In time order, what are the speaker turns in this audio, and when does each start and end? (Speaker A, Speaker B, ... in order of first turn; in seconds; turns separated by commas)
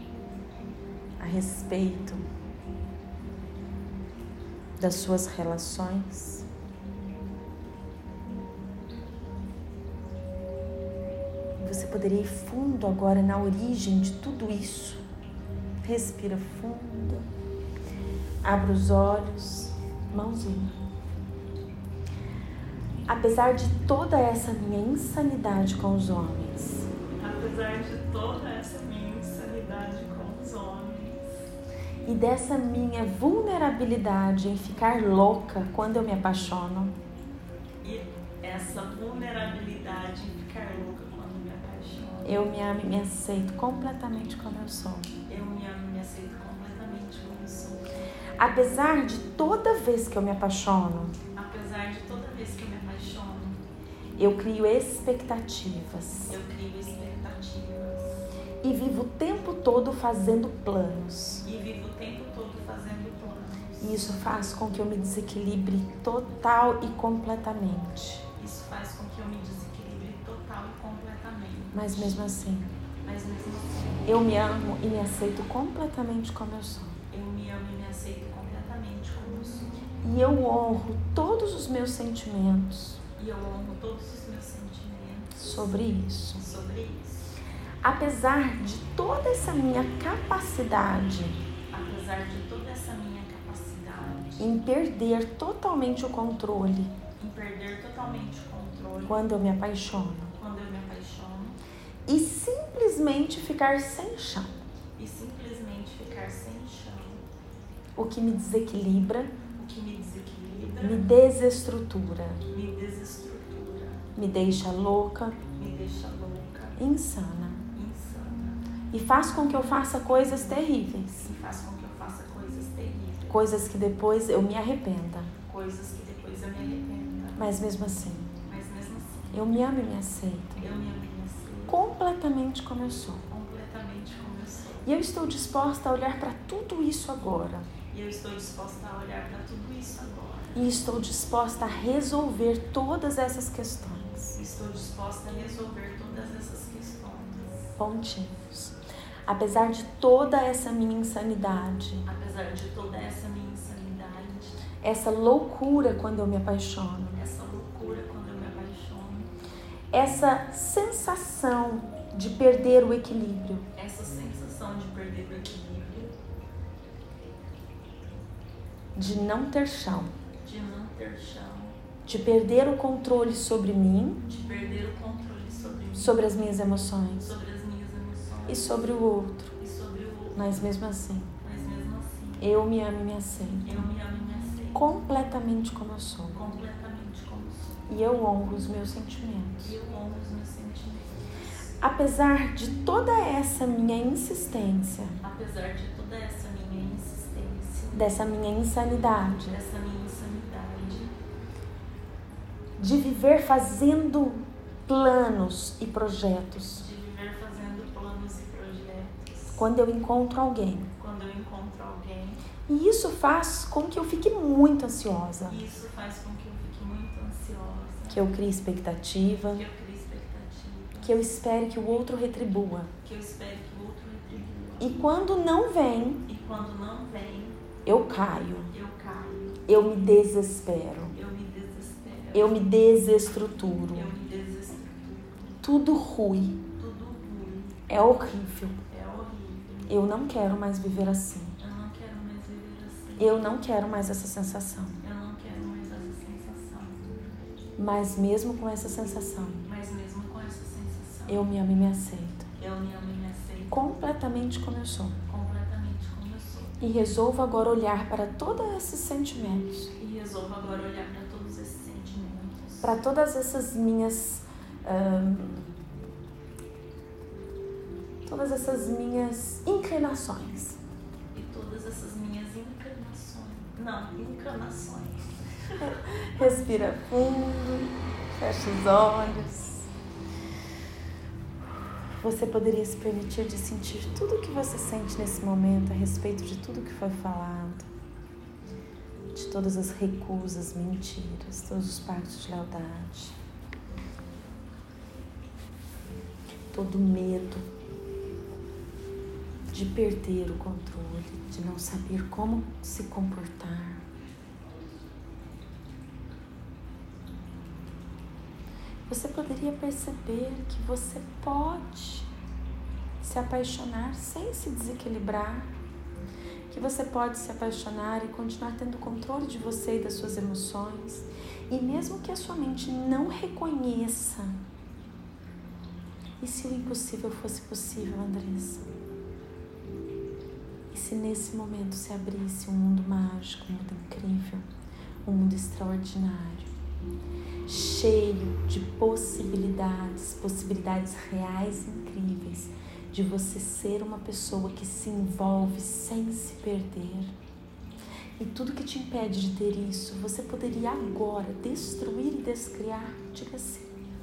Speaker A: 1.2-2.2, Speaker A: 4.8-6.5, Speaker A: 11.6-15.0, Speaker A: 15.8-17.2, Speaker A: 18.4-20.8, Speaker A: 23.1-26.9, Speaker B: 27.2-31.3, Speaker A: 32.0-37.0, Speaker B: 37.8-42.4, Speaker A: 42.2-45.1, Speaker B: 45.3-47.9, Speaker A: 48.4-51.1, Speaker B: 51.3-53.6, Speaker A: 54.1-56.4, Speaker B: 56.3-58.2, Speaker A: 58.6-61.5, Speaker B: 61.4-64.0, Speaker A: 63.8-68.2, Speaker B: 68.4-72.2, Speaker A: 71.7-72.7, Speaker B: 73.0-74.3, Speaker A: 74.0-77.0, Speaker B: 77.1-79.8, Speaker A: 80.0-83.0, Speaker B: 83.2-85.4, Speaker A: 85.3-86.5, Speaker B: 86.3-87.3, Speaker A: 87.8-91.4, Speaker B: 91.7-94.5, Speaker A: 94.4-96.9, Speaker B: 97.2-99.3, Speaker A: 99.0-100.3, Speaker B: 100.3-101.6, Speaker A: 102.0-104.6, Speaker B: 105.0-107.2, Speaker A: 108.0-109.3, Speaker B: 109.5-111.1, Speaker A: 110.8-112.4, Speaker B: 112.5-114.1, Speaker A: 114.2-115.4, Speaker B: 115.5-116.8, Speaker A: 116.8-117.6, Speaker B: 117.7-118.6, Speaker A: 118.9-121.3, Speaker B: 121.2-123.5, Speaker A: 123.3-125.3, Speaker B: 125.5-127.5, Speaker A: 127.4-128.3, Speaker B: 128.4-129.4, Speaker A: 129.3-130.7, Speaker B: 130.6-131.9, Speaker A: 131.7-133.3, Speaker B: 133.3-134.9, Speaker A: 134.8-137.7, Speaker B: 137.9-140.6, Speaker A: 140.5-144.4, Speaker B: 144.3-147.7, Speaker A: 147.8-152.1, Speaker B: 152.1-154.6, Speaker A: 154.8-157.2, Speaker B: 157.1-159.3, Speaker A: 159.9-163.7, Speaker B: 163.7-166.1, Speaker A: 168.9-170.1, Speaker B: 170.4-171.8, Speaker A: 172.1-174.2, Speaker B: 174.2-176.4, Speaker A: 175.9-177.3, Speaker B: 177.2-178.8, Speaker A: 178.5-179.5, Speaker B: 179.6-180.7, Speaker A: 180.3-181.3, Speaker B: 181.4-182.6, Speaker A: 182.4-183.9, Speaker B: 183.6-184.9, Speaker A: 184.7-186.4, Speaker B: 186.3-187.8, Speaker A: 187.9-189.8, Speaker B: 189.6-191.4, Speaker A: 191.8-195.2, Speaker B: 195.2-198.2, Speaker A: 197.9-199.6, Speaker B: 199.3-201.1, Speaker A: 202.8-206.8, Speaker B: 206.8-209.7, Speaker A: 209.6-210.9, Speaker B: 211.0-212.4, Speaker A: 212.7-215.6, Speaker B: 215.5-218.3, Speaker A: 218.1-219.6, Speaker B: 219.5-221.2, Speaker A: 221.0-222.9, Speaker B: 223.0-225.0, Speaker A: 224.8-226.2, Speaker B: 226.2-227.6, Speaker A: 227.8-228.7, Speaker B: 228.7-229.6, Speaker A: 229.7-231.2, Speaker B: 231.1-232.7, Speaker A: 232.3-234.1, Speaker B: 233.9-235.6, Speaker A: 235.6-236.6, Speaker B: 236.8-238.0, Speaker A: 237.9-238.8, Speaker B: 238.9-240.0, Speaker A: 239.9-241.6, Speaker B: 241.6-243.5, Speaker A: 243.2-245.0, Speaker B: 245.0-247.5, Speaker A: 247.8-249.7, Speaker B: 249.6-251.5, Speaker A: 251.3-252.5, Speaker B: 252.6-253.8, Speaker A: 253.7-255.2, Speaker B: 255.2-256.8, Speaker A: 256.8-259.9, Speaker B: 260.0-262.9, Speaker A: 262.8-265.7, Speaker A: 268.2-270.8, Speaker B: 271.3-276.0, Speaker A: 275.8-279.9, Speaker A: 282.1-287.9, Speaker A: 289.3-293.4, Speaker A: 296.7-297.7, Speaker A: 299.7-304.0, Speaker A: 309.1-312.3, Speaker A: 313.2-315.7, Speaker A: 316.7-324.6, Speaker A: 326.4-328.9, Speaker A: 330.9-334.6, Speaker A: 335.2-336.7, Speaker A: 337.6-347.3, Speaker A: 348.4-353.9